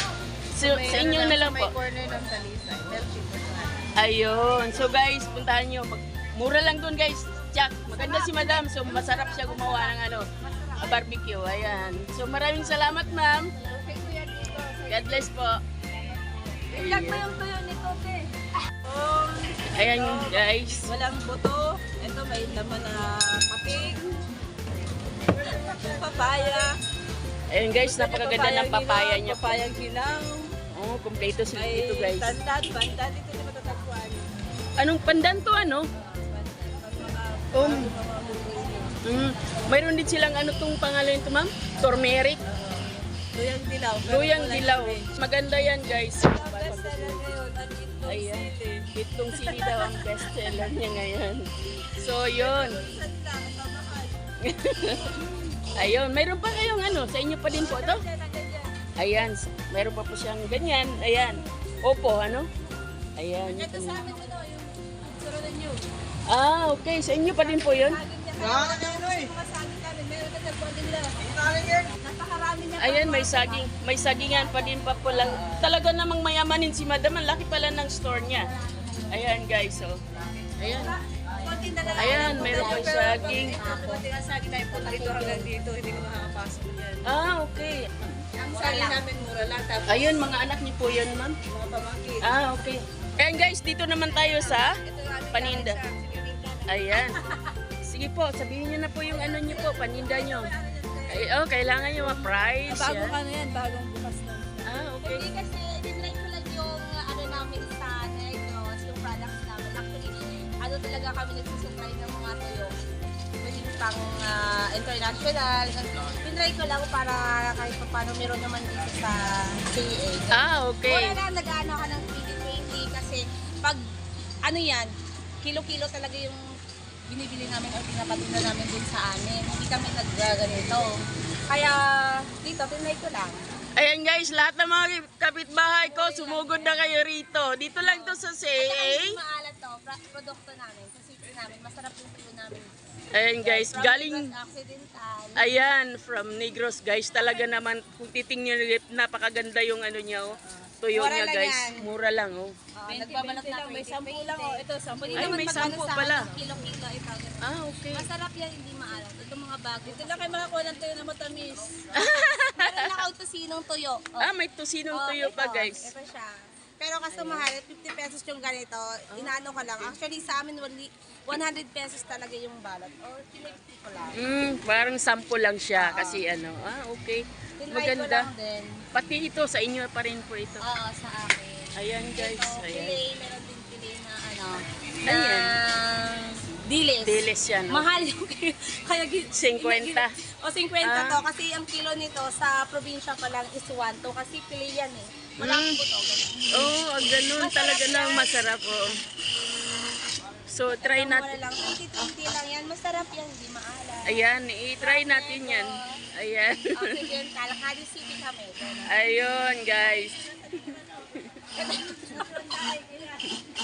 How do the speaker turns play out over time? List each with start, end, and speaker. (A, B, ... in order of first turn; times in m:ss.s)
0:00.5-0:01.8 A
0:00.6-0:03.9 B
0:04.0-0:13.5 A
0:07.9-0:11.0 C
0:13.6-0:15.0 B
0:13.6-0:14.8 C
0:14.9-0:15.6 A
0:16.7-0:17.3 A
0:16.7-0:18.3 B
0:18.8-0:24.3 B
0:19.7-0:20.9 A
0:25.4-0:26.8 B
0:27.5-0:29.6 A
0:27.8-0:30.5 B
0:30.7-0:32.4 A
0:31.5-0:34.3 B
0:34.8-0:35.9 A
0:36.0-0:39.0 B
0:37.5-0:37.9 A
0:39.0-0:42.4 A
0:42.5-0:45.1 B
0:44.0-0:47.3 A
0:46.1-0:49.8 B
0:48.0-0:52.8 A
0:52.2-0:54.2 B
0:54.4-0:55.2 A
0:55.7-0:58.0 A
0:57.5-0:58.7 B
0:59.0-1:02.5 A
1:03.2-1:04.0 A
1:03.5-1:05.5 C
1:03.9-1:04.5 B
1:05.0-1:05.8 B
1:06.3-1:08.0 A
1:07.4-1:15.2 C
1:08.3-1:09.3 B
1:10.7-1:11.8 B
1:12.4-1:13.3 B
1:12.8-1:18.5 A
1:18.4-1:19.1 C
1:19.1-1:20.0 A
1:20.6-1:21.0 A
1:20.6-1:27.1 B
1:20.6-1:24.0 C
1:21.9-1:23.7 A
1:24.7-1:25.5 C
1:27.0-1:28.1 A
1:28.4-1:30.3 B
1:28.4-1:29.0 C
1:29.8-1:31.4 A
1:31.5-1:32.2 B
1:32.2-1:34.8 A
1:34.2-1:36.7 B
1:35.3-1:35.8 A
1:36.7-1:37.2 A
1:37.8-1:40.5 A
1:39.1-1:41.3 B
1:41.1-1:43.2 A
1:41.8-1:44.6 B
1:44.6-1:45.2 A
1:45.0-1:52.7 C
1:53.4-2:03.8 C
2:00.3-2:01.2 A
2:04.4-2:06.4 C
2:07.1-2:13.4 C
2:13.8-2:19.2 A
2:15.8-2:17.0 C
2:17.8-2:22.7 C
2:23.1-2:24.3 A
2:23.4-2:25.5 C
2:25.4-2:32.5 A
2:30.9-2:31.9 C
2:32.8-2:36.5 B
2:32.8-2:40.8 C
2:35.1-2:36.3 A
2:37.4-2:38.1 A
2:39.8-2:41.8 B
2:41.9-2:43.0 A
2:41.9-2:44.3 C
2:44.2-2:45.9 A
2:44.9-2:54.3 C
2:47.1-2:47.4 A
2:49.1-2:49.9 A
2:54.1-2:58.3 A
2:55.8-2:56.2 C
2:57.6-2:58.8 C
2:58.9-3:00.6 A
3:00.6-3:16.7 C
3:01.7-3:03.0 A
3:05.0-3:05.6 A
3:07.0-3:07.9 A
3:09.3-3:10.1 A
3:10.8-3:11.2 A
3:15.4-3:15.8 A
3:16.5-3:19.0 A
3:17.3-3:18.4 C
3:20.5-3:21.4 A
3:20.8-3:24.2 C
3:24.0-3:27.0 A
3:24.8-3:26.0 C
3:26.7-3:29.0 C
3:28.9-3:31.4 A
3:31.4-3:33.3 C